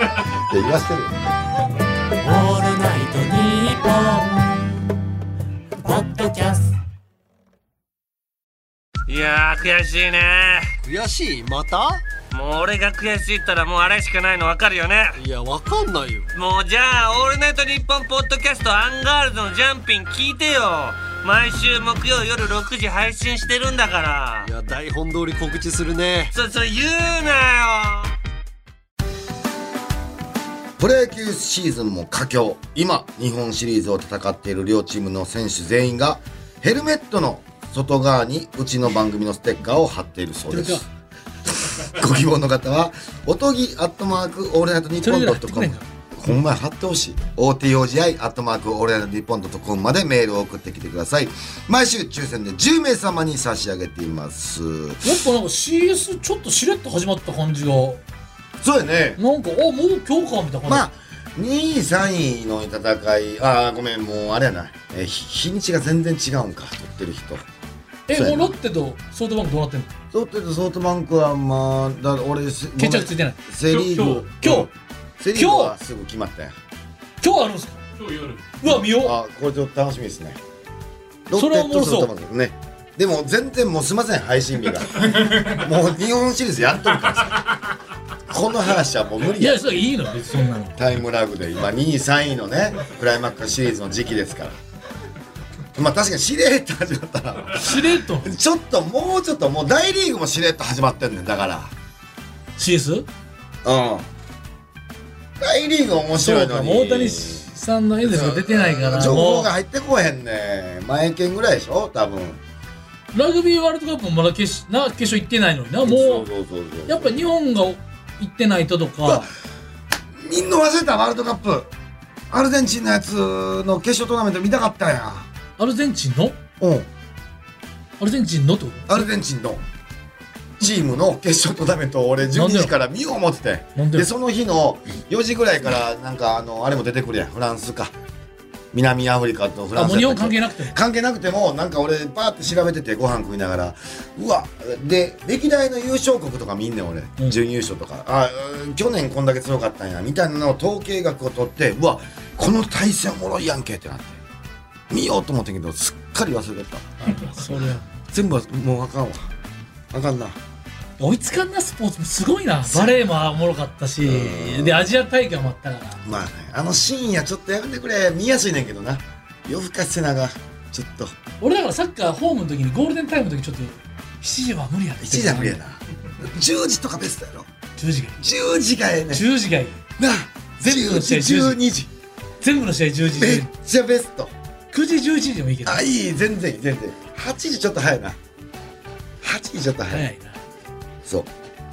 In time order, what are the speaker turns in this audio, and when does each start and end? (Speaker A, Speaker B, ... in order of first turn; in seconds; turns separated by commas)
Speaker A: 0.3-1.1, Speaker B: 2.2-4.4, Speaker B: 5.8-6.7, Speaker C: 9.1-10.7, Speaker D: 10.8-12.0, Speaker C: 12.3-15.2, Speaker D: 15.2-16.3, Speaker C: 16.3-24.5, Speaker D: 24.4-26.3, Speaker C: 26.3-28.1, Speaker A: 30.8-40.9, Speaker B: 40.5-40.9, Speaker A: 41.6-55.1, Speaker B: 45.0-45.9, Speaker B: 55.0-58.0, Speaker A: 58.6-59.2, Speaker B: 59.2-60.9, Speaker A: 60.7-67.5, Speaker B: 68.1-69.9, Speaker A: 68.1-68.5, Speaker A: 70.1-76.5, Speaker B: 72.8-74.7, Speaker B: 75.3-75.8, Speaker B: 77.2-77.8, Speaker B: 78.6-79.2, Speaker A: 78.6-80.4, Speaker A: 81.3-87.6, Speaker B: 81.4-82.1, Speaker A: 88.3-89.8, Speaker B: 89.4-90.8, Speaker A: 90.8-94.6, Speaker A: 95.8-101.7, Speaker B: 97.6-98.3, Speaker B: 102.6-103.1, Speaker A: 103.7-104.1, Speaker A: 105.4-107.5, Speaker B: 106.2-109.5, Speaker A: 108.0-112.4, Speaker B: 113.1-116.3, Speaker A: 115.8-117.1, Speaker B: 116.9-119.3, Speaker A: 120.2-121.7, Speaker A: 122.3-125.3, Speaker B: 125.6-126.4, Speaker A: 126.6-126.9, Speaker B: 128.0-129.0, Speaker A: 128.9-129.6, Speaker A: 130.6-137.9, Speaker B: 132.3-132.7, Speaker B: 133.8-134.1, Speaker A: 138.7-154.2, Speaker B: 139.8-140.8, Speaker A: 154.9-157.4, Speaker B: 157.0-157.9, Speaker A: 158.1-159.3, Speaker A: 159.9-160.4, Speaker B: 161.0-166.0, Speaker A: 162.7-163.0, Speaker A: 164.0-164.9, Speaker A: 166.1-171.2, Speaker B: 171.4-175.6, Speaker A: 175.0-177.5, Speaker B: 177.8-178.2, Speaker A: 178.2-179.3, Speaker B: 179.1-179.8, Speaker A: 180.0-181.9, Speaker B: 180.6-181.6, Speaker B: 182.4-183.5, Speaker A: 183.2-184.3, Speaker B: 184.7-185.8, Speaker A: 185.7-188.2, Speaker A: 189.2-190.1, Speaker B: 189.9-190.4, Speaker A: 191.0-191.3